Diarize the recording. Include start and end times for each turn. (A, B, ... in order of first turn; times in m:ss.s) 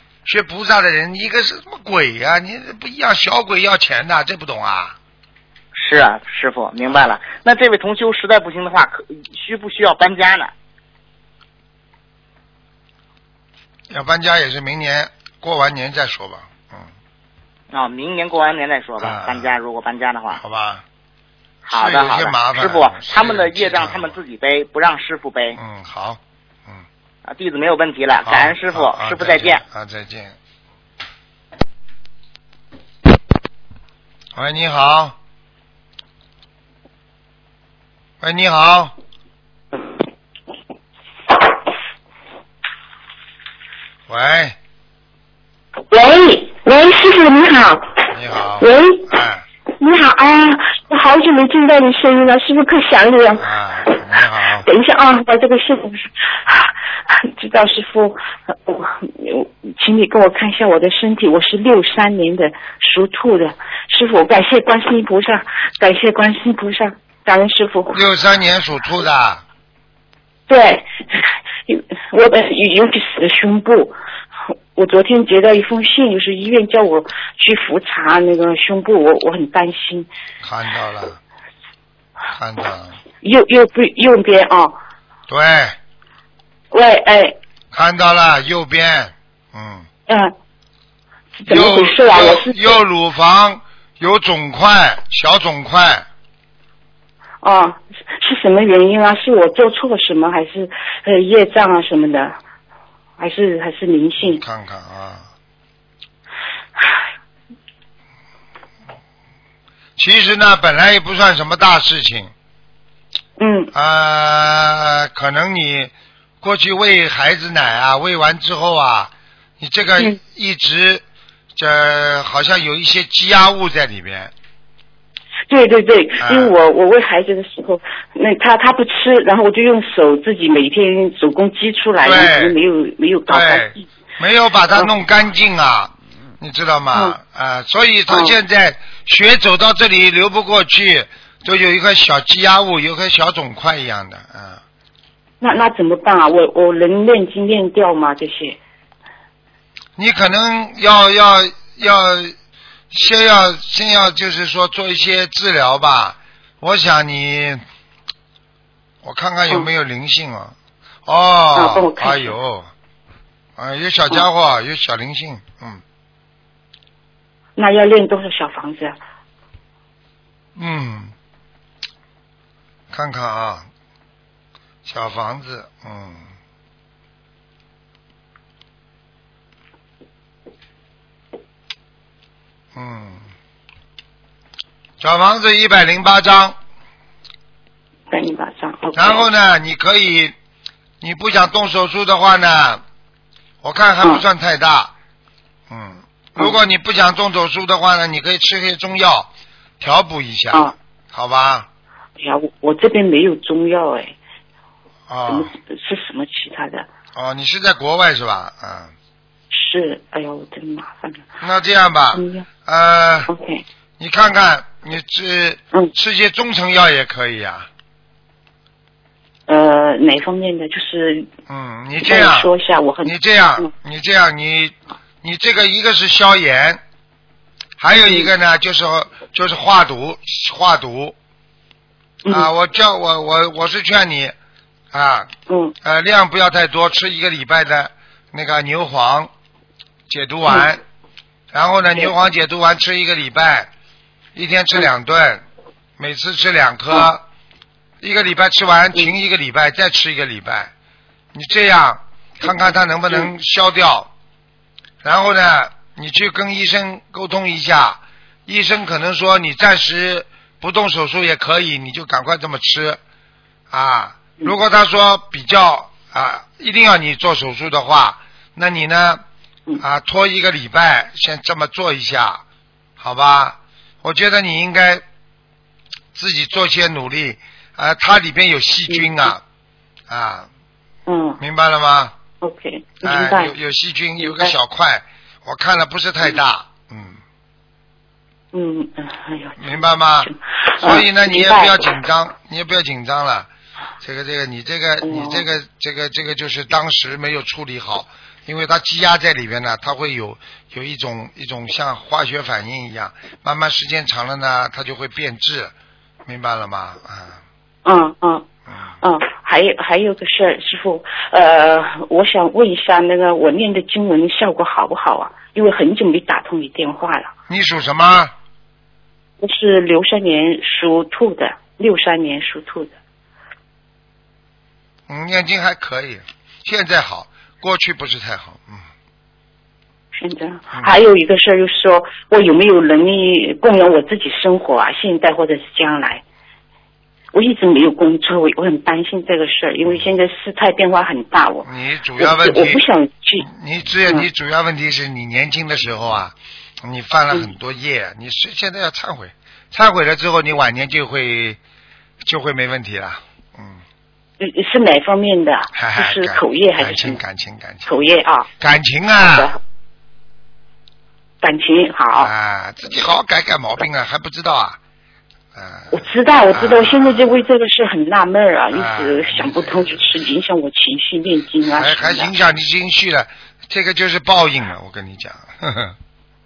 0:00.2-0:05.0 A
0:05.7-0:10.5 B
0:13.9-0:16.9 A
0:17.7-0:20.4 B
0:19.0-0:19.5 A
0:20.3-0:20.8 A
0:21.6-0:25.6 B
0:21.7-0:24.2 A
0:25.6-0:26.8 A
0:27.2-0:29.6 B
0:28.2-0:30.4 A
0:34.3-0:35.2 A
0:38.2-0:38.9 A
0:44.1-0:44.6 A
0:45.9-0:48.0 C
0:48.1-0:49.4 A
0:48.6-0:49.1 C
0:49.7-0:54.0 C
0:53.4-0:54.7 A
0:54.6-1:08.0 C
1:07.9-1:09.4 A
1:10.5-1:14.0 C
1:14.7-1:20.1 C
1:20.4-1:21.2 A
1:22.3-1:23.0 A
1:23.2-1:24.8 C
1:25.3-1:25.8 A
1:26.7-1:27.4 C
1:27.7-1:29.9 A
1:30.1-1:30.3 C
1:31.4-1:32.8 C
1:31.5-1:36.0 A
1:37.4-1:42.4 C
1:43.2-1:44.4 C
1:44.2-1:45.3 A
1:50.0-1:52.3 A
1:53.4-1:53.7 C
1:53.7-2:01.0 A
2:01.6-2:04.3 A
2:05.5-2:13.8 C
2:06.2-2:06.5 A
2:12.0-2:12.6 A
2:13.3-2:24.6 A
2:18.1-2:18.4 C
2:25.4-2:28.6 C
2:30.0-2:32.3 A
2:32.9-2:37.6 A
2:39.0-2:40.5 A
2:41.0-2:42.7 A
2:41.5-2:42.4 C
2:43.6-2:45.8 A
2:47.6-2:49.0 C
2:50.6-2:51.1 A
2:52.9-2:53.7 A
2:54.8-2:56.3 A
3:02.7-3:03.2 A
3:05.0-3:06.6 A
3:08.1-3:09.3 C
3:08.9-3:10.3 A
3:11.0-3:12.8 A
3:13.6-3:14.9 A
3:15.7-3:21.7 A
3:22.2-3:24.1 C
3:25.1-3:25.5 A
3:25.3-3:26.9 C
3:27.1-3:28.9 A
3:29.5-3:31.2 C
3:31.4-3:33.3 A
3:32.1-3:32.5 C
3:33.3-3:33.6 C
3:34.0-3:37.7 A
3:39.5-3:41.3 C
3:41.5-3:42.5 A
3:42.0-3:43.7 C
3:43.0-3:46.8 A
3:47.8-3:51.1 A
3:48.0-3:48.3 C
3:52.3-3:54.3 A
3:54.9-3:55.3 A
3:55.5-3:55.7 C
3:55.8-3:59.3 A
4:00.1-4:00.8 A
4:01.5-4:03.7 A
4:04.3-4:05.4 A
4:06.0-4:07.2 A
4:08.0-4:10.7 A
4:11.3-4:14.1 A
4:15.0-4:23.0 A
4:23.7-4:29.2 A
4:29.8-4:32.4 A
4:33.0-4:35.0 A
4:36.1-4:39.4 A
4:38.9-4:39.3 C
4:40.1-4:40.5 A
4:41.1-4:41.4 C
4:41.4-4:42.1 A
4:42.4-4:43.5 C
4:43.0-4:47.2 A
4:44.2-4:44.5 C
4:48.5-4:51.9 C
4:49.6-4:53.5 A
4:54.0-5:05.7 A
4:55.0-4:55.4 C
5:06.2-5:07.4 A
5:07.8-5:08.4 C
5:09.0-5:17.3 C
5:17.5-5:18.3 A
5:19.4-5:22.9 C
5:25.1-5:28.8 A
5:30.1-5:36.2 C
5:37.3-5:43.4 C
5:41.6-5:42.8 A
5:43.4-5:51.6 A
5:52.2-5:53.8 A
5:54.4-5:57.2 C
5:55.8-5:57.9 A
5:57.8-5:58.5 C
5:58.6-5:59.5 A
5:59.3-5:59.6 C
6:01.4-6:02.3 C
6:02.2-6:04.8 A
6:05.5-6:07.4 A
6:05.9-6:12.3 C
6:08.7-6:10.1 A
6:11.8-6:15.9 A